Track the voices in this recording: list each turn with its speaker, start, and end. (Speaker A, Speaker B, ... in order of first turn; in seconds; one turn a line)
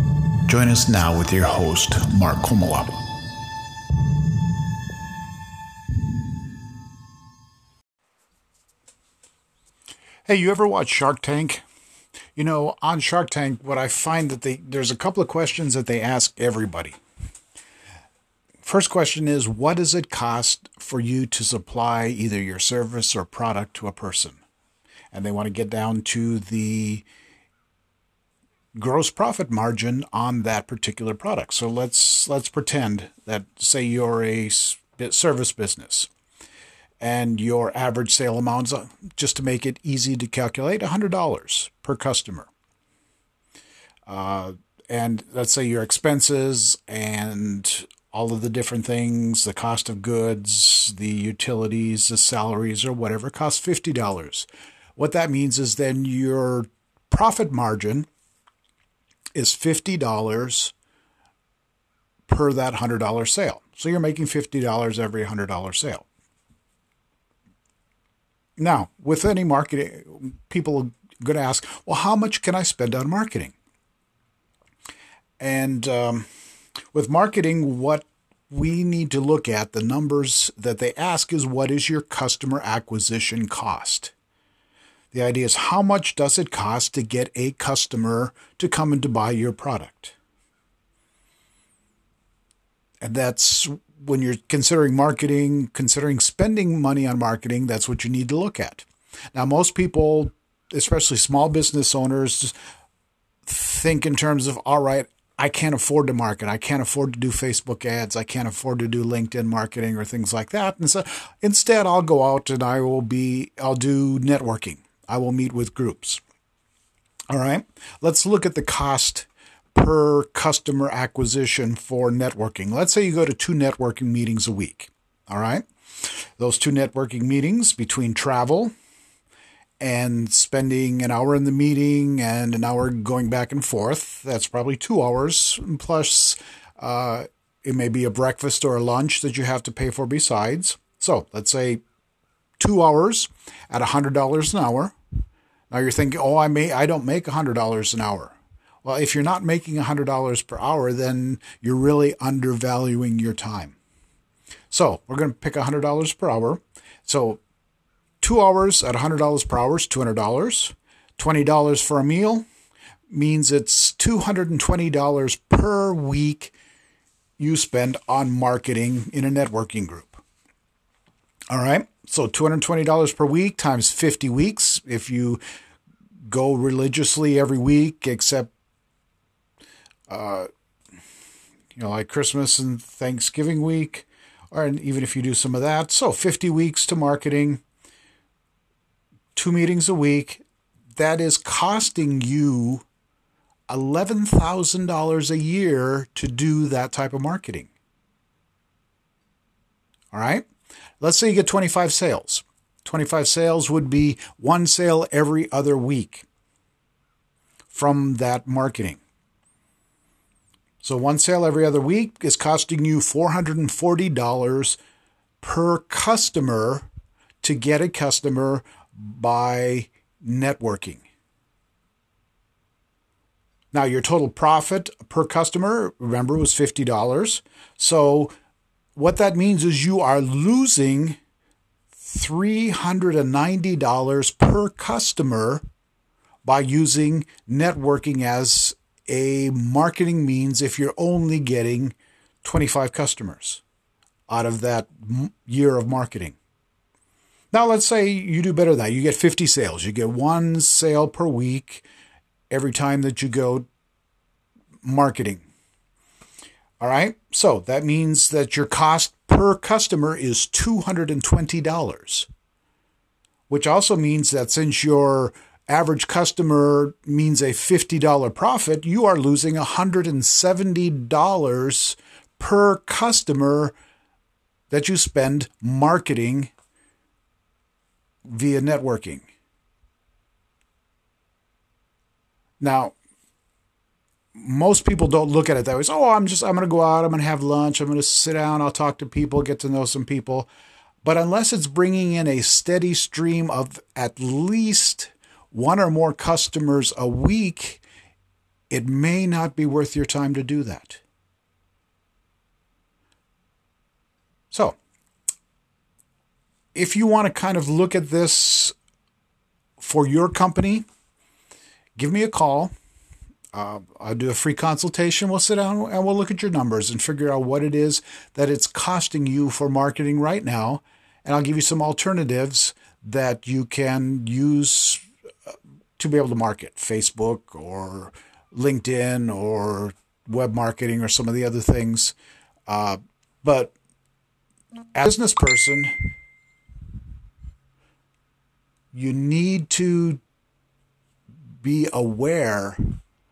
Speaker A: 0.5-3.0
Speaker A: 10.3-11.6
Speaker A: 12.4-16.9
Speaker A: 18.6-24.4
Speaker A: 25.1-27.1
Speaker A: 28.8-36.1
Speaker A: 37.0-42.5
Speaker A: 44.1-58.1
Speaker A: 59.4-60.7
Speaker A: 62.3-66.0
Speaker A: 68.6-73.5
Speaker A: 75.4-76.3
Speaker A: 76.9-84.1
Speaker A: 85.1-90.2
Speaker A: 93.0-102.5
Speaker A: 103.5-116.2
Speaker A: 117.3-128.7
Speaker A: 129.8-141.8
Speaker A: 142.6-144.9
Speaker A: 145.7-153.8
Speaker A: 154.7-157.4
Speaker A: 158.2-162.5
Speaker A: 163.1-166.6
Speaker A: 167.4-170.2
Speaker A: 171.5-175.4
Speaker A: 176.3-178.5
Speaker A: 180.1-180.5
Speaker A: 181.8-187.6
Speaker A: 189.3-190.4
Speaker A: 190.9-192.8
Speaker A: 193.7-197.7
Speaker A: 200.1-200.5
Speaker A: 201.0-206.3
Speaker A: 207.7-209.0
Speaker A: 210.8-214.8
Speaker A: 215.4-216.9
Speaker A: 217.4-221.1
Speaker A: 223.7-228.3
Speaker A: 229.0-231.2
Speaker A: 231.9-235.6
Speaker A: 236.4-243.6
Speaker A: 244.3-246.4
Speaker A: 247.5-251.8
Speaker A: 252.5-253.7
Speaker A: 254.8-255.4
Speaker A: 256.8-262.3
Speaker A: 263.5-273.8
Speaker A: 274.7-276.5
Speaker A: 278.2-279.3
Speaker A: 282.6-282.9
Speaker A: 284.4-290.5
Speaker A: 291.0-297.8
Speaker A: 298.7-301.0
Speaker A: 304.5-304.8
Speaker A: 306.7-308.8
Speaker A: 309.8-310.8
Speaker A: 312.0-312.7
Speaker A: 313.5-325.1
Speaker A: 326.0-332.1
Speaker A: 332.7-333.7
Speaker A: 334.9-335.9
Speaker A: 338.9-340.2
Speaker A: 341.6-342.8